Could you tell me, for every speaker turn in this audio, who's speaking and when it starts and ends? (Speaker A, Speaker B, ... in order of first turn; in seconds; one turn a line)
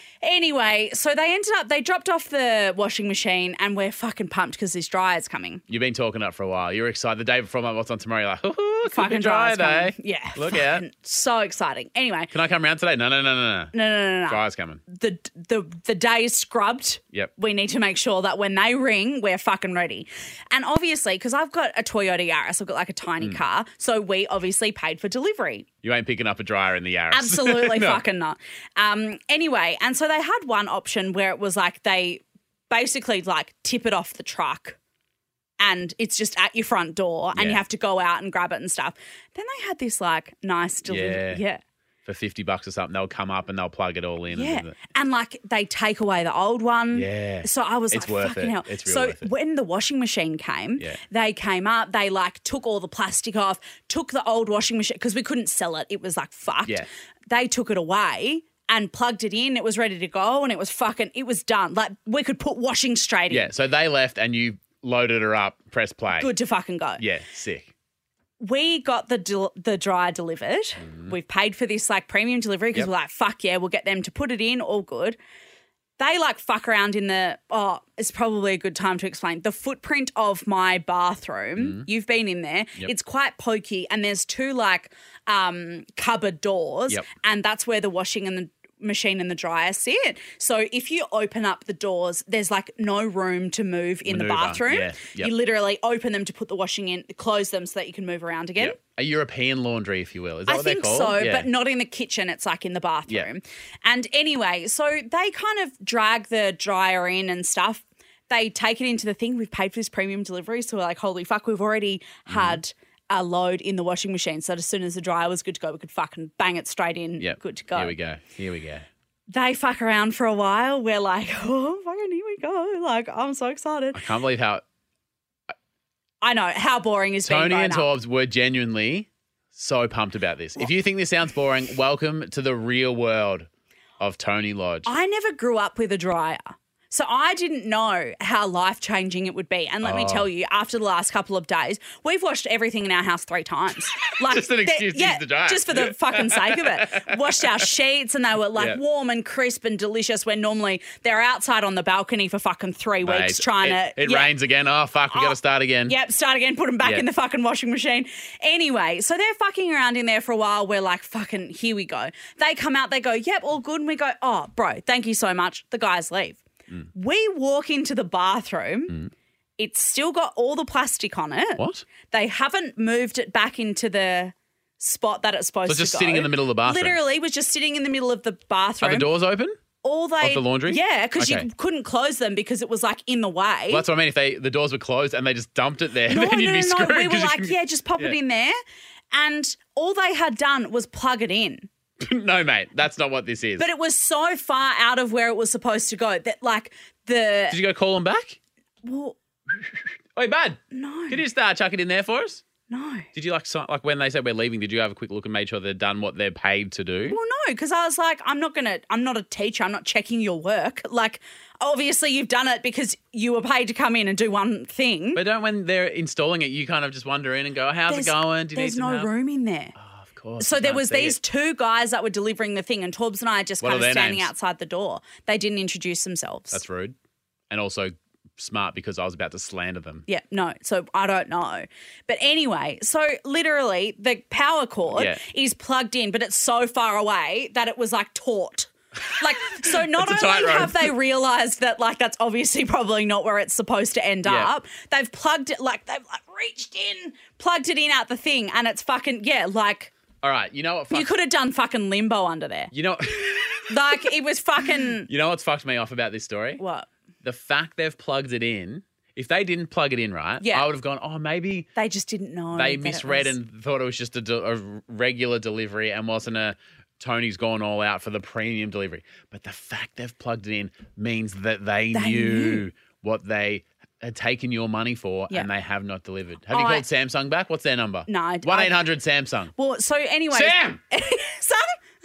Speaker A: 0.2-5.6
Speaker B: 5.7-10.8
Speaker A: 8.8-12.3
Speaker B: 12.3-13.7
Speaker A: 13.7-25.6
Speaker B: 14.3-14.8
Speaker B: 25.8-28.0
Speaker A: 27.1-34.8
Speaker A: 35.6-41.6
Speaker B: 37.4-37.6
Speaker B: 40.9-41.4
Speaker B: 42.0-44.8
Speaker A: 44.3-63.5
Speaker B: 46.9-49.3
Speaker B: 63.3-66.3
Speaker A: 66.2-67.0
Speaker B: 67.0-67.7
Speaker A: 68.4-75.2
Speaker B: 70.8-71.1
Speaker A: 76.0-98.8
Speaker B: 81.6-81.9
Speaker B: 94.1-95.3
Speaker B: 98.6-101.5
Speaker A: 100.5-117.9
Speaker B: 112.3-112.6
Speaker B: 117.2-118.8
Speaker A: 119.3-124.0
Speaker B: 123.9-124.6
Speaker A: 126.2-127.9
Speaker B: 127.2-133.5
Speaker B: 134.0-134.9
Speaker A: 134.8-154.3
Speaker B: 139.8-140.3
Speaker B: 144.1-147.6
Speaker B: 153.0-155.9
Speaker A: 155.1-166.4
Speaker A: 166.9-169.0
Speaker A: 169.6-179.1
Speaker B: 171.6-171.9
Speaker B: 175.7-177.0
Speaker B: 178.8-179.6
Speaker A: 179.8-183.8
Speaker B: 180.2-181.5
Speaker B: 183.7-188.2
Speaker A: 186.1-188.6
Speaker A: 189.1-191.7
Speaker B: 192.0-193.7
Speaker A: 193.6-197.6
Speaker B: 197.5-198.4
Speaker A: 198.8-199.2
Speaker B: 199.5-202.4
Speaker A: 200.7-201.2
Speaker A: 202.7-203.1
Speaker B: 203.1-207.2
Speaker A: 207.1-215.2
Speaker B: 215.1-219.1
Speaker A: 217.9-219.7
Speaker B: 219.8-221.2
Speaker A: 220.4-226.6
Speaker B: 223.6-224.3
Speaker B: 226.5-226.9
Speaker B: 227.5-230.1
Speaker A: 230.1-249.9
Speaker B: 234.9-235.2
Speaker B: 239.1-240.9
Speaker B: 244.2-244.5
Speaker B: 250.2-251.1
Speaker A: 250.9-252.7
Speaker B: 252.7-254.1
Speaker A: 253.7-255.1
Speaker B: 255.1-256.6
Speaker A: 256.6-256.9
Speaker B: 257.2-261.7
Speaker A: 260.4-260.7
Speaker A: 261.7-263.3
Speaker B: 262.6-279.5
Speaker A: 271.9-272.6
Speaker A: 276.5-276.8
Speaker A: 278.1-278.8
Speaker A: 279.6-281.8
Speaker B: 280.3-280.8